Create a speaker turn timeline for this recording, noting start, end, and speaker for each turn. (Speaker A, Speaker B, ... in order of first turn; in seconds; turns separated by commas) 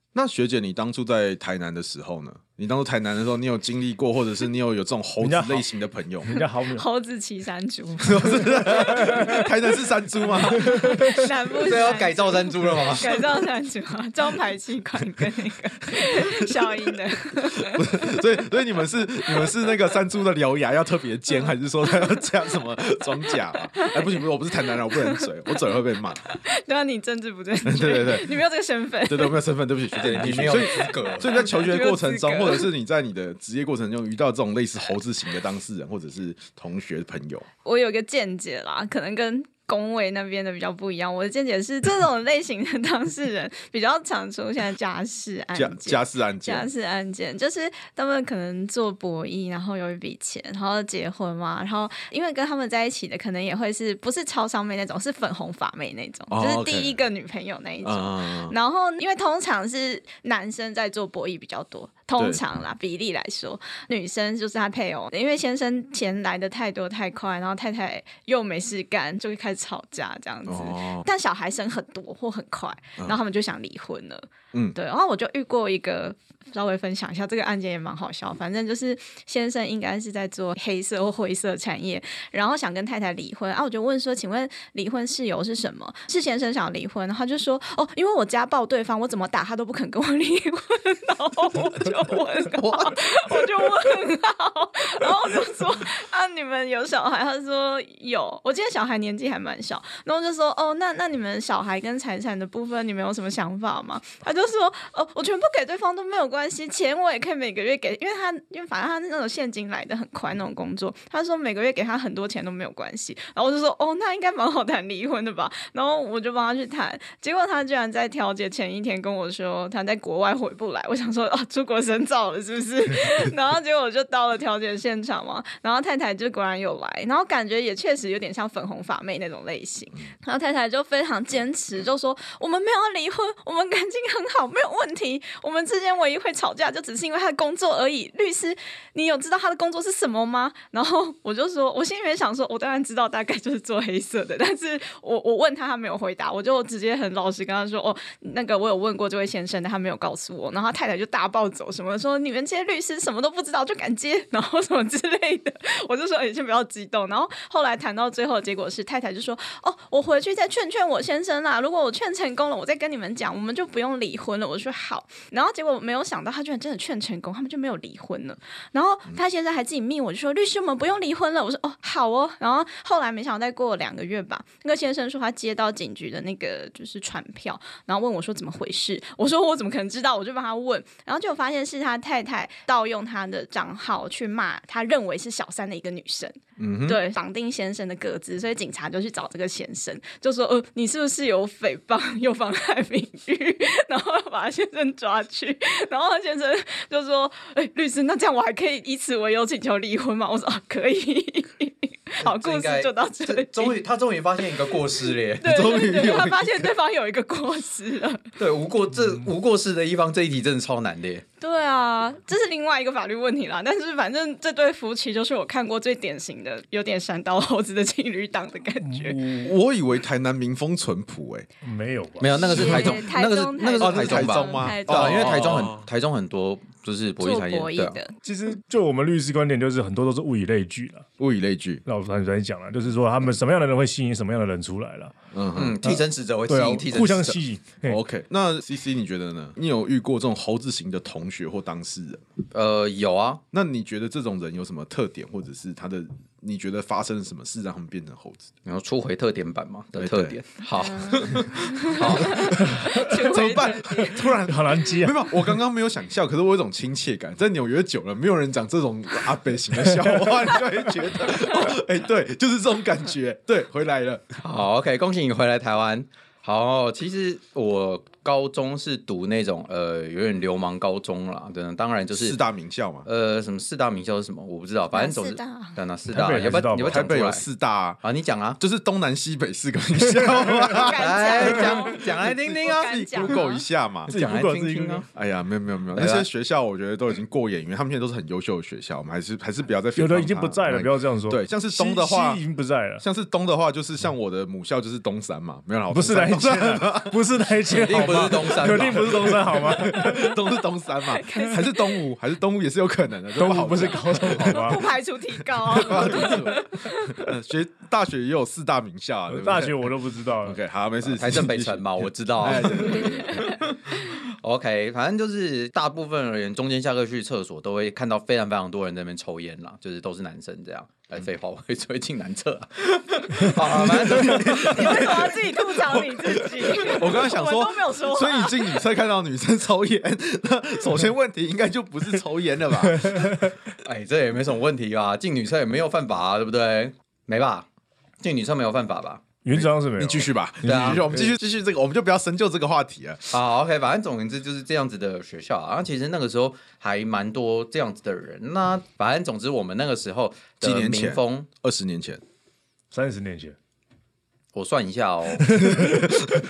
Speaker A: 0.1-6.3, Speaker B: 5.2-5.7, Speaker B: 6.3-6.8, Speaker C: 6.3-18.2, Speaker A: 8.0-11.3, Speaker D: 11.6-13.2, Speaker A: 16.0-16.7, Speaker A: 17.4-26.4, Speaker C: 23.7-29.4, Speaker A: 27.6-28.4, Speaker A: 29.1-37.5, Speaker D: 30.0-31.5, Speaker C: 30.1-32.7, Speaker C: 37.6-203.8, Speaker A: 45.5-46.7, Speaker A: 56.3-57.0, Speaker A: 57.8-58.6, Speaker A: 62.2-62.4, Speaker A: 70.5-71.1, Speaker D: 92.6-92.9, Speaker A: 186.6-187.0, Speaker D: 202.2-205.6, Speaker C: 205.4-208.3, Speaker A: 205.4-206.7, Speaker D: 208.4-211.2, Speaker C: 211.4-219.2, Speaker B: 218.8-219.5, Speaker A: 219.4-221.5, Speaker B: 221.6-222.4, Speaker D: 222.2-228.0, Speaker C: 222.3-225.6, Speaker A: 222.4-223.0, Speaker A: 223.8-225.9, Speaker C: 227.2-228.2, Speaker B: 228.2-231.1, Speaker A: 231.2-231.8, Speaker B: 231.9-235.2, Speaker A: 235.3-235.8, Speaker D: 235.5-237.4, Speaker B: 235.8-238.0, Speaker A: 237.8-242.2, Speaker D: 242.5-243.4, Speaker A: 243.5-248.5, Speaker D: 248.7-252.6, Speaker A: 250.0-250.4, Speaker C: 250.8-254.4, Speaker A: 251.2-264.4, Speaker B: 252.6-253.1, Speaker B: 254.4-255.3, Speaker D: 264.4-272.4, Speaker A: 272.1-273.1, Speaker D: 273.1-277.4, Speaker C: 274.9-275.8, Speaker B: 276.1-277.1, Speaker A: 276.8-278.0, Speaker D: 278.0-278.6, Speaker A: 278.6-284.2, Speaker C: 280.6-283.6, Speaker D: 280.9-283.3, Speaker D: 284.1-285.1, Speaker B: 284.1-285.0, Speaker A: 285.1-292.4, Speaker D: 285.9-286.3, Speaker B: 290.0-293.0, Speaker A: 293.0-304.9, Speaker B: 295.9-300.4, Speaker D: 297.7-299.6, Speaker C: 301.0-302.1, Speaker B: 303.4-304.8, Speaker C: 304.4-307.2, Speaker A: 305.5-313.6, Speaker B: 309.3-310.6, Speaker D: 311.1-325.2, Speaker C: 312.9-313.6, Speaker A: 323.5-333.6, Speaker C: 324.3-328.9, Speaker B: 332.9-333.5, Speaker D: 333.8-337.7, Speaker D: 338.2-339.3, Speaker B: 339.4-341.4, Speaker A: 339.5-343.3, Speaker D: 340.6-341.1, Speaker D: 343.3-351.5, Speaker A: 350.6-352.2, Speaker B: 352.9-353.6, Speaker D: 354.5-355.8, Speaker A: 355.7-356.2